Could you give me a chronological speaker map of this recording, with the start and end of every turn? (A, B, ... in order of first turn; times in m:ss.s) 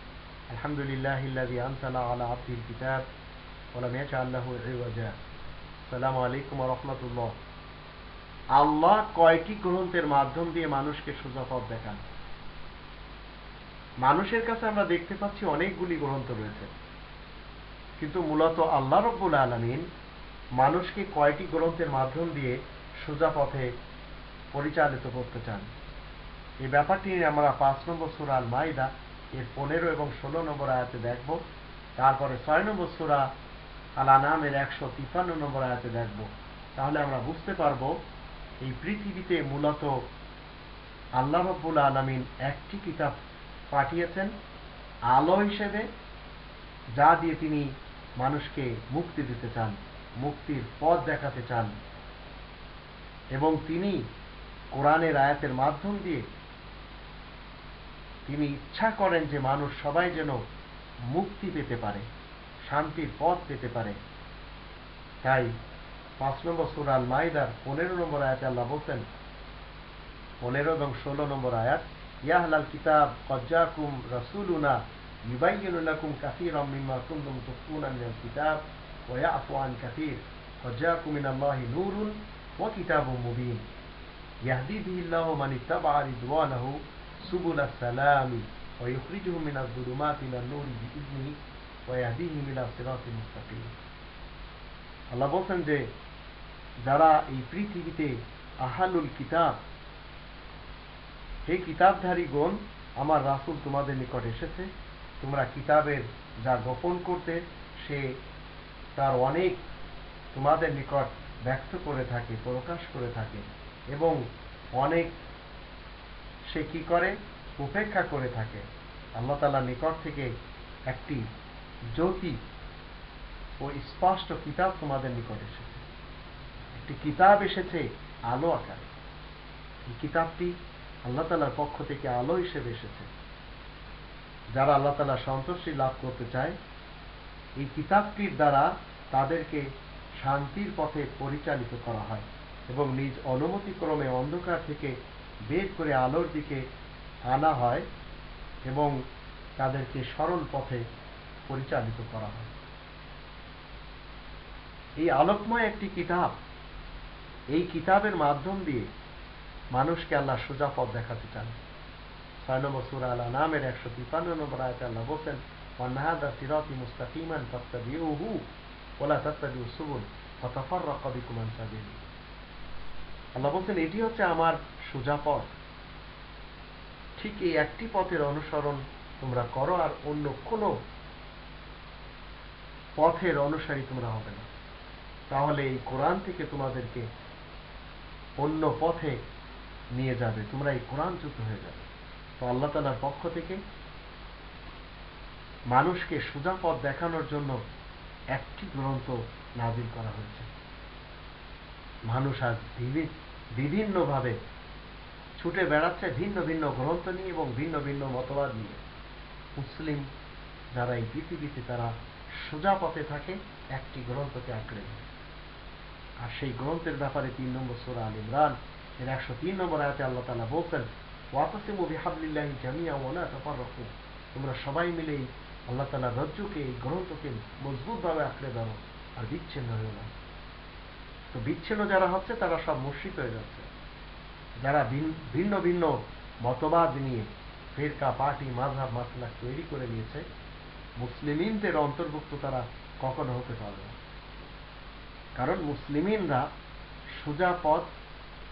0:00.5-0:03.0 A
0:03.7-0:05.2 A
0:05.8-0:07.4 A
0:08.6-0:12.0 A
0:14.0-0:16.7 A
0:18.0-0:19.8 A
0:20.6-0:23.7 A
0:24.5-0:25.7 A
0:26.6-0:31.4 A
0:32.0-0:33.3 A
0:34.0-0:38.0 A
0:38.6-0:40.0 A
0:41.2-0:43.1 A
0:43.7-0:44.3 A
0:45.1-0:45.9 A
0:47.0-0:51.7 A
0:53.3-0:54.0 A
0:54.7-0:56.2 A
0:58.2-1:00.4 A
1:01.1-1:02.0 A
1:02.6-1:04.0 A
1:05.2-1:05.5 A
1:06.2-1:09.1 A
1:10.4-1:23.7 A
1:24.4-1:33.7 A
1:35.1-1:35.9 A
1:36.8-1:39.6 A
1:41.4-1:48.0 A
1:49.0-1:49.6 A
1:50.3-1:54.2 A
1:54.8-1:55.2 A
1:56.4-1:58.6 A
1:59.2-2:00.3 A
2:00.9-2:01.3 A
2:02.0-2:02.4 A
2:03.6-2:05.8 A
2:06.8-2:08.8 A
2:09.8-2:13.1 A
2:14.5-2:16.6 A
2:17.6-2:19.7 A
2:20.2-2:24.9 A
2:25.5-2:26.6 A
2:27.3-2:27.8 A
2:28.7-2:28.9 A
2:29.6-2:30.8 A
2:31.4-2:32.5 A
2:35.0-2:36.4 A
2:37.5-2:38.9 A
2:39.7-2:41.6 A
2:42.4-2:48.4 A
2:49.0-2:52.0 A
2:53.3-2:55.5 A
2:57.2-3:00.7 A
3:03.0-3:04.5 A
3:05.3-3:07.0 A
3:08.4-3:09.2 A
3:09.9-3:13.6 A
3:15.7-3:17.6 A
3:18.3-3:20.5 A
3:22.1-3:24.4 A
3:25.4-3:28.8 A
3:29.6-3:30.1 A
3:30.7-3:35.0 A
3:36.2-3:50.1 A
3:51.3-3:53.7 A
3:54.6-4:00.2 A
4:01.0-4:04.0 A
4:05.4-4:06.5 A
4:07.2-4:07.9 A